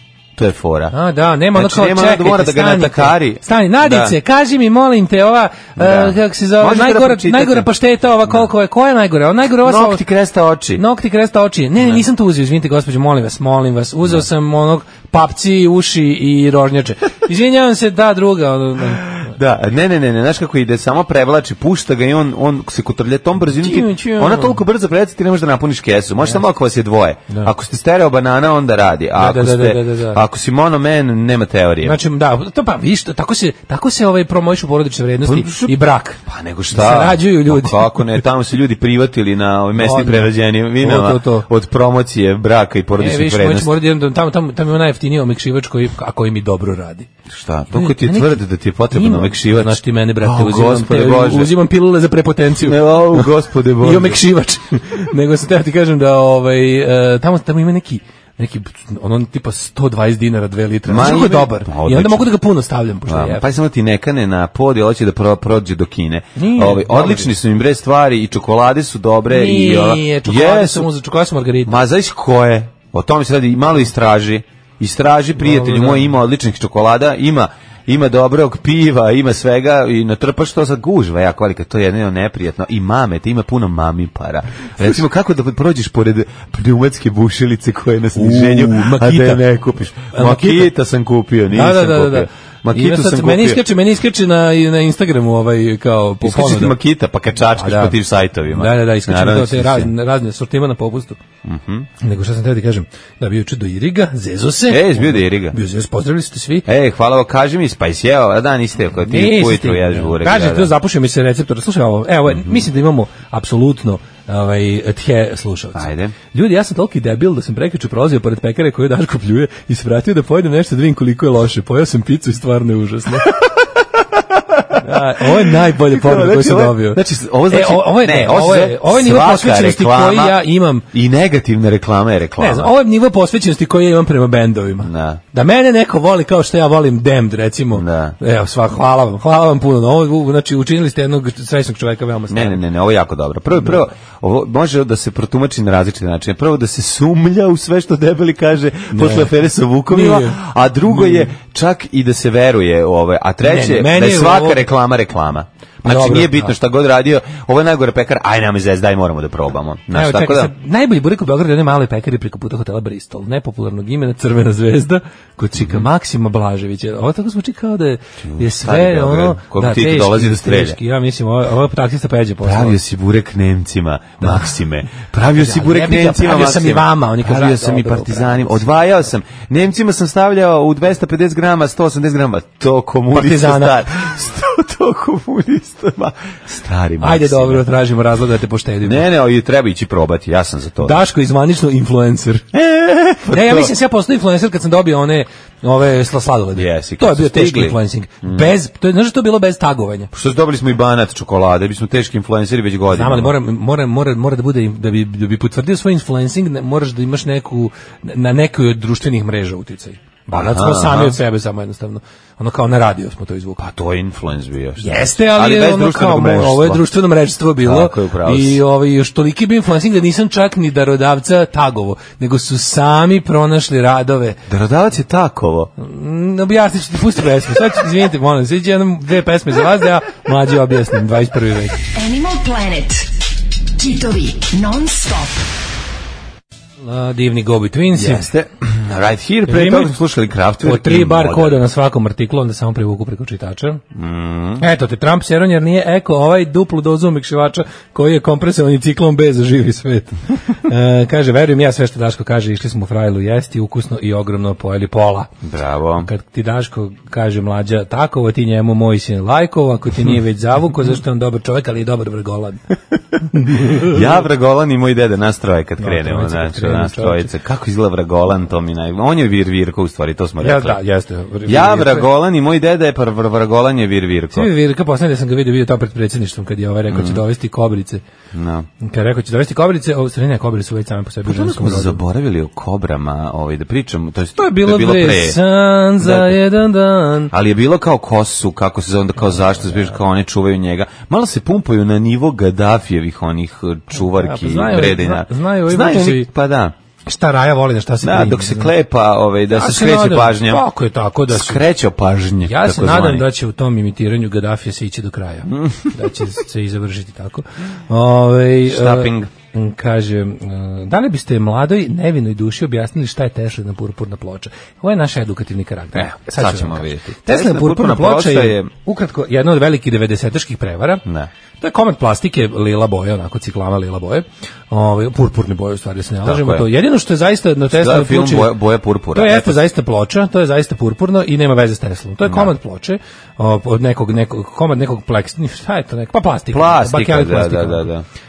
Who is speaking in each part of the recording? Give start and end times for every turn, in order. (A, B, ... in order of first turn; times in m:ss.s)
0:00.4-0:00.9 A
0:00.9-0:10.0 B
0:01.5-0:04.2 A
0:05.8-0:07.7 A
0:09.6-0:10.8 A
0:10.8-0:19.3 B
0:19.1-0:32.0 A
0:23.6-0:24.6 B
0:29.2-0:30.2 B
0:31.8-0:36.2 B
0:35.2-0:43.7 A
0:36.7-0:38.2 B
0:39.8-0:41.5 B
0:43.0-0:47.1 B
0:47.3-0:51.5 A
0:47.7-0:53.3 B
0:52.6-0:54.2 A
0:53.8-1:03.4 B
1:00.9-1:02.3 A
1:03.1-1:10.9 A
1:06.4-1:07.3 B
1:09.3-1:11.8 B
1:11.6-1:33.6 A
1:15.4-1:16.2 B
1:28.2-1:29.4 B
1:30.1-1:30.7 B
1:31.5-1:36.7 B
1:36.2-1:39.9 A
1:37.5-1:38.0 B
1:38.5-1:41.2 B
1:41.4-1:41.9 A
1:42.0-1:46.7 B
1:44.7-1:45.6 A
1:46.7-1:50.7 A
1:49.1-2:03.4 B
1:55.8-1:56.2 A
2:04.6-2:12.7 A
2:04.7-2:10.9 B
2:12.4-2:22.6 B
2:14.8-2:15.2 A
2:17.7-2:18.2 A
2:22.3-2:40.5 A
2:28.9-2:29.4 B
2:29.9-2:31.3 B
2:33.4-2:34.6 B
2:35.8-2:36.5 B
2:39.9-2:52.8 B
2:45.6-2:45.9 A
2:48.2-2:50.8 A
2:52.4-3:07.7 A
2:54.2-2:54.5 B
2:55.4-2:58.6 B
3:03.1-3:03.8 B
3:07.0-3:09.0 B
3:08.8-3:11.0 A
3:10.8-3:12.5 B
3:12.5-3:13.7 A
3:13.3-3:20.1 B
3:16.5-3:18.5 A
3:20.1-3:23.3 A
3:22.9-3:33.6 B
3:30.3-3:31.2 A
3:33.6-3:36.9 A
3:34.8-3:44.4 B
3:37.6-3:38.6 A
3:44.5-3:45.7 A
3:45.8-3:51.8 B
3:51.9-3:53.1 C
3:53.8-3:55.5 C
3:56.8-3:58.3 B
3:58.0-4:01.6 A
3:59.5-3:59.9 B
4:00.6-4:03.8 B
4:03.9-4:04.6 A
4:04.6-4:15.3 B
4:15.4-4:16.1 A
4:16.0-4:22.6 B
4:23.3-4:24.1 B
4:23.5-4:30.8 A
4:25.8-4:27.3 B
4:30.4-4:32.1 B
4:31.4-4:34.5 A
4:34.3-4:38.0 B
4:36.9-4:37.2 A
4:38.3-4:38.7 A
4:38.8-4:42.0 B
4:41.2-4:45.4 A
4:44.4-4:47.3 B
4:46.0-4:46.4 A
4:47.3-4:56.7 A
4:49.4-4:49.8 B
4:53.9-4:56.3 B
4:57.1-4:58.7 B
4:58.0-5:00.6 A
4:59.5-5:01.6 B
5:01.3-5:03.3 A
5:02.4-5:21.0 B
5:05.5-5:05.9 A
5:08.7-5:09.3 A
5:15.9-5:18.7 A
5:21.6-5:28.5 B
5:26.2-5:26.7 A
5:27.7-5:29.6 A
5:29.1-5:37.9 B
5:32.2-5:32.5 A
5:36.5-5:38.0 A